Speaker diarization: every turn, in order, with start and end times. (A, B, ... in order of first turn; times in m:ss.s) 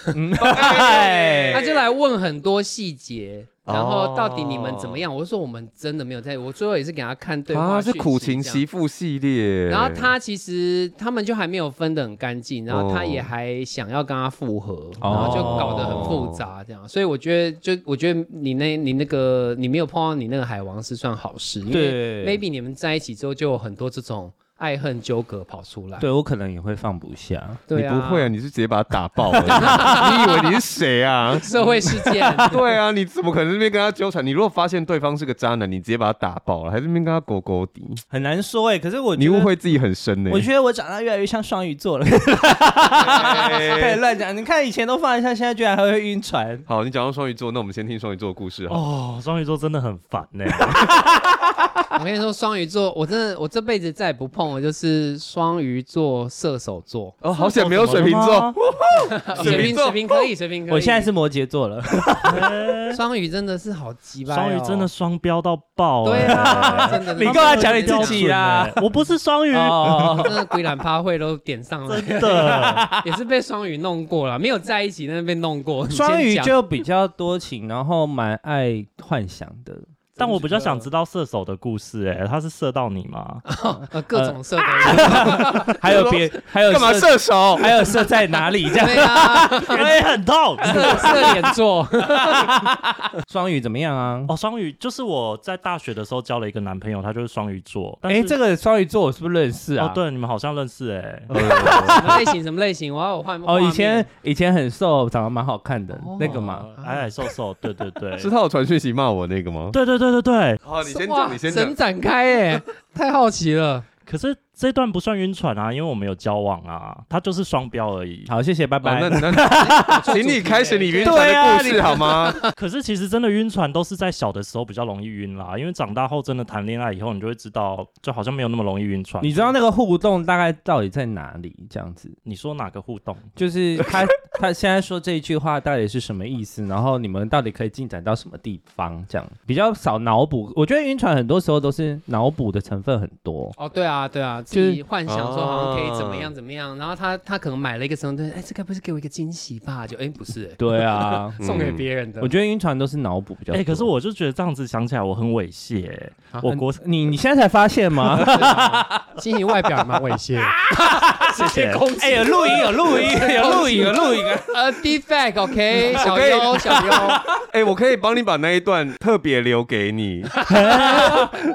0:00.1-0:01.6 A
0:00.4-0:01.9 B
0:01.5-0:08.6 C
0:03.7-0:05.0 B
0:07.5-0:10.1 B
0:09.7-0:26.1 C
0:12.7-0:13.3 B
0:15.0-0:16.1 A
0:15.1-0:16.4 B
0:21.7-0:22.4 A
0:26.0-0:27.7 A
0:27.7-0:28.3 C
0:27.7-0:31.5 B
0:29.4-0:30.0 A
0:29.5-0:30.4 C
0:31.4-0:32.6 C
0:32.1-0:32.5 A
0:32.4-0:38.0 B
0:38.1-0:39.5 A
0:39.2-0:40.5 B
0:40.3-0:46.7 A
0:43.0-0:44.0 B
0:43.2-0:43.4 C
0:46.7-0:48.8 B
0:48.7-0:51.0 D
0:50.9-0:51.7 A
0:52.0-0:57.2 C
0:57.2-1:00.0 B
0:57.3-0:58.6 D
0:59.1-1:01.1 C
0:59.4-0:59.7 D
1:00.7-1:02.5 A
1:02.2-1:03.0 D
1:02.9-1:04.9 C
1:04.3-1:10.3 D
1:06.0-1:08.3 C
1:06.1-1:08.8 A
1:09.5-1:10.3 A
1:10.2-1:16.6 C
1:11.9-1:12.8 D
1:12.4-1:13.1 A
1:15.9-1:19.9 A
1:20.2-1:20.9 C
1:20.2-1:23.4 D
1:23.5-1:25.7 C
1:24.1-1:30.0 A
1:25.7-1:27.9 B
1:28.6-1:30.0 C
1:29.6-1:31.4 D
1:30.6-1:31.4 A
1:30.6-1:32.6 C
1:32.1-1:34.3 A
1:34.3-1:38.4 D
1:38.0-1:40.0 A
1:39.8-1:41.3 D
1:41.3-1:42.2 B
1:41.3-1:42.3 A
1:41.7-1:44.1 C
1:43.4-1:46.7 A
1:45.9-1:47.3 C
1:46.2-1:48.3 D
1:48.2-1:49.8 B
1:49.7-1:50.6 D
1:50.6-1:51.8 B
1:50.8-1:53.9 C
1:54.1-1:58.3 D
1:58.3-2:00.1 A
1:58.8-2:02.4 B
1:59.4-2:02.5 C
2:01.0-2:02.1 A
2:02.6-2:09.6 D
2:09.2-2:12.2 A
2:12.3-2:13.3 D
2:13.4-2:23.6 A
2:23.6-2:32.3 C
2:24.5-2:24.8 A
2:25.1-2:26.3 B
2:30.6-2:31.4 A
2:31.4-2:31.9 B
2:32.2-2:33.9 A
2:33.5-2:36.8 D
2:36.4-2:39.2 A
2:38.1-2:47.3 C
2:40.4-2:41.4 A
2:41.3-2:41.8 D
2:42.0-2:44.8 A
2:45.9-2:50.4 B
2:46.6-2:47.4 A
2:50.4-2:51.3 C
2:50.5-2:51.3 D